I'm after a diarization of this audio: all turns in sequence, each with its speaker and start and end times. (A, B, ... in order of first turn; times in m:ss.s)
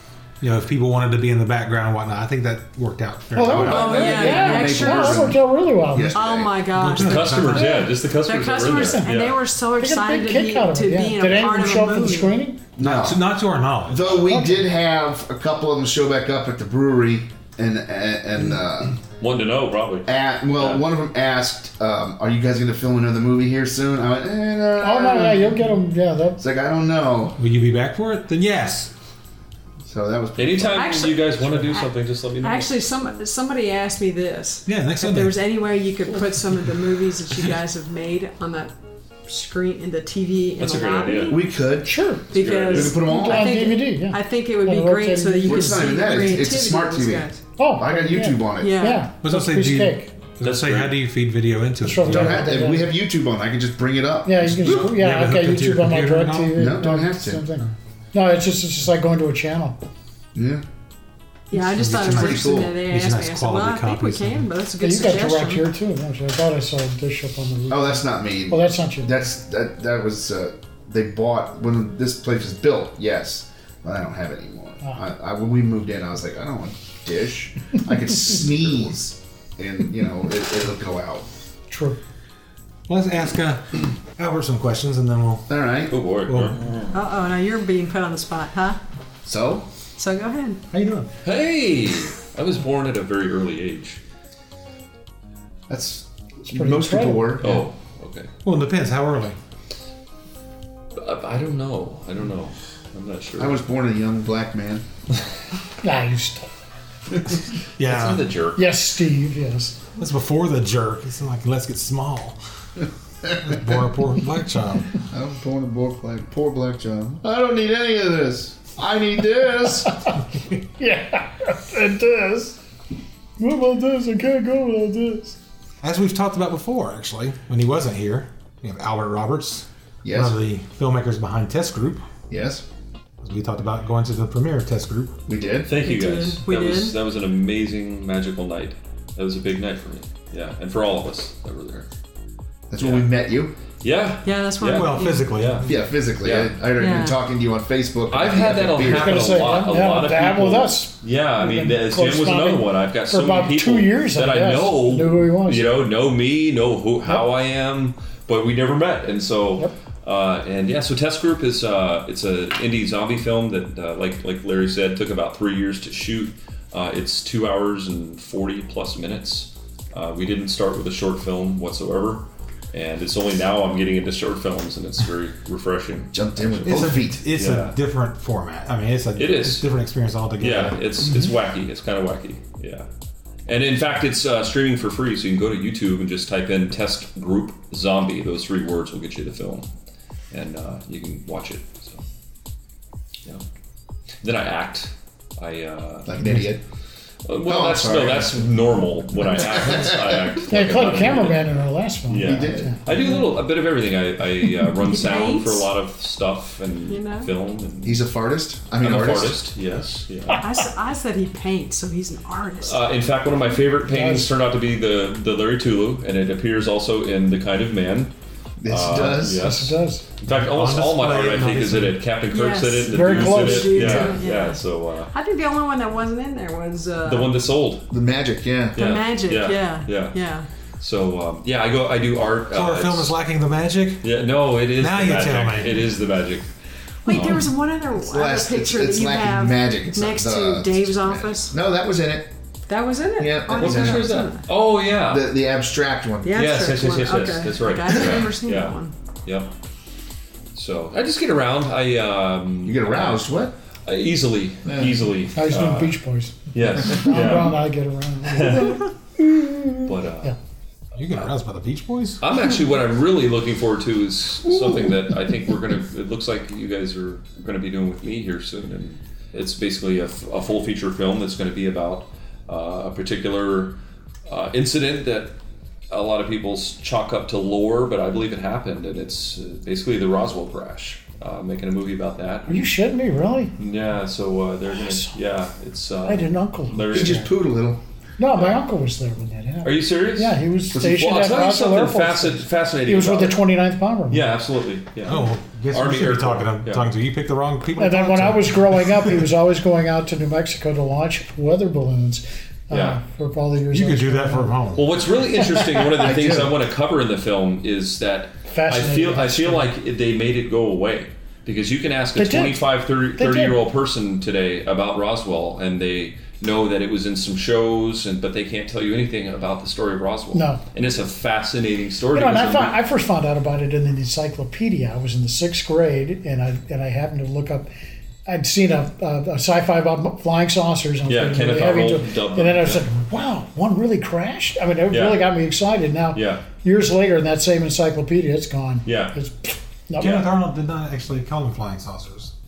0:00.4-0:04.1 A
0:03.3-0:06.2 B
0:03.4-0:06.6 C
0:03.7-0:05.4 D
0:03.9-0:04.6 E
0:06.1-0:12.4 D
0:06.7-0:07.8 A
0:07.0-0:09.4 E
0:08.8-0:09.1 B
0:09.8-0:12.6 B
0:12.8-0:13.2 C
0:12.8-0:14.3 A
0:13.9-0:19.0 C
0:14.2-0:14.7 B
0:19.2-0:20.9 E
0:20.1-0:25.6 C
0:24.8-0:26.4 B
0:26.4-0:27.4 C
0:27.4-0:28.9 A
0:29.9-0:30.9 C
0:30.4-0:32.7 E
0:30.6-0:31.9 D
0:32.4-0:38.7 D
0:34.7-0:35.4 A
0:39.2-0:41.5 D
0:40.6-0:41.4 E
0:41.3-0:42.0 C
0:41.8-0:42.3 B
0:42.3-0:47.4 D
0:42.3-0:43.0 E
0:42.6-0:43.6 C
0:43.0-0:45.9 B
0:45.4-0:48.8 C
0:47.6-0:50.1 B
0:48.6-0:49.1 D
0:49.2-0:52.5 A
0:50.4-0:51.0 E
0:51.8-0:52.9 B
0:52.0-0:54.4 C
0:54.2-0:59.8 B
0:54.4-0:56.8 A
0:56.6-0:57.4 C
1:00.4-1:00.6 C
1:01.5-1:05.7 D
1:01.6-1:04.4 A
1:02.0-1:02.8 C
1:04.8-1:09.2 B
1:07.7-1:21.3 C
1:21.7-1:22.0 B
1:22.9-1:25.5 A
1:25.5-1:25.9 C
1:25.9-1:26.8 E
1:26.3-1:26.6 A
1:26.9-1:28.8 D
1:29.2-1:29.7 C
1:30.0-1:30.6 D
1:30.7-1:31.1 A
1:31.2-1:34.0 E
1:35.7-1:37.6 C
1:36.4-1:37.4 B
1:37.4-1:38.3 E
1:38.4-1:39.4 A
1:41.0-1:43.6 E
1:43.4-1:44.8 C
1:45.8-1:46.5 B
1:47.8-1:48.3 A
1:47.8-1:48.6 E
1:48.6-1:49.8 B
1:50.0-1:52.4 A
1:53.4-1:55.0 A
1:55.1-2:00.2 C
2:00.8-2:02.6 B
2:03.4-2:05.4 B
2:05.8-2:12.1 A
2:10.0-2:10.4 C
2:12.3-2:12.6 C
2:13.2-2:15.1 A
2:15.3-2:15.7 C
2:15.7-2:21.9 E
2:15.8-2:17.0 D
2:22.7-2:23.5 C
2:22.8-2:23.1 E
2:23.8-2:25.7 E
2:24.2-2:25.3 D
2:24.7-2:25.8 A
2:25.7-2:29.4 C
2:26.2-2:26.6 E
2:26.8-2:27.2 D
2:28.1-2:56.8 E
2:28.9-2:35.7 B
2:56.1-2:57.2 C
2:56.6-3:00.8 A
2:57.3-2:57.8 E
2:59.2-2:59.7 E
3:00.4-3:02.9 E
3:03.5-3:09.7 E
3:10.3-3:12.0 E
3:14.2-3:16.1 E
3:16.1-3:16.6 C
3:16.2-3:16.6 A
3:17.2-3:21.5 E
3:17.4-3:20.4 C
3:20.5-3:22.9 B
3:22.1-3:28.1 E
3:22.2-3:23.1 C
3:24.8-3:25.7 D
3:26.9-3:27.3 D
3:27.8-3:29.4 C
3:28.8-3:30.4 E
3:30.4-3:32.8 D
3:32.6-3:38.1 E
3:33.9-3:34.3 B
3:38.6-3:39.5 C
3:38.7-3:45.1 E
3:39.2-3:40.0 B
3:40.3-3:42.1 A
3:42.3-3:47.4 D
3:42.9-3:44.1 B
3:47.0-3:47.9 E
3:47.9-3:48.8 C
3:48.8-3:50.2 E
3:48.8-3:50.5 D
3:50.8-3:53.1 E
3:52.5-3:54.1 A
3:54.0-3:56.5 E
3:54.8-3:55.9 A
3:57.0-4:01.6 D
3:57.1-3:57.4 E
3:57.9-4:02.3 C
4:02.7-4:04.4 D
4:03.2-4:04.3 C
4:03.6-4:05.3 E
4:05.1-4:06.6 C
4:06.2-4:08.9 D
4:06.3-4:09.5 E
4:07.9-4:08.2 C
4:10.6-4:13.3 E
4:12.6-4:13.5 C
4:13.9-4:16.0 E
4:14.6-4:15.0 C
4:15.4-4:20.4 B
4:16.5-4:17.6 E
4:18.3-4:18.9 E
4:19.8-4:20.3 E
4:21.0-4:22.2 A
4:22.2-4:35.4 E
4:35.9-4:42.8 E
4:42.5-4:43.6 B
4:43.6-4:47.3 E
4:44.7-4:45.1 B
4:46.0-4:47.3 B
4:46.9-4:47.8 C
4:48.2-4:54.3 B
4:48.4-4:48.6 E
4:49.6-4:53.5 E
4:54.1-4:56.9 E
4:55.0-4:59.3 A
4:57.8-5:04.6 B
5:02.7-5:03.0 E
5:03.7-5:04.9 A
5:04.8-5:22.8 E
5:05.6-5:06.1 B
5:06.0-5:06.5 C
5:08.5-5:09.7 B
5:12.1-5:13.6 B
5:20.3-5:20.6 B
5:22.1-5:27.7 B
5:28.3-5:40.2 B
5:31.1-5:32.8 E
5:34.9-5:35.3 E
5:36.1-5:36.4 E
5:38.8-5:39.1 E
5:40.0-5:40.3 E
5:40.0-5:42.3 A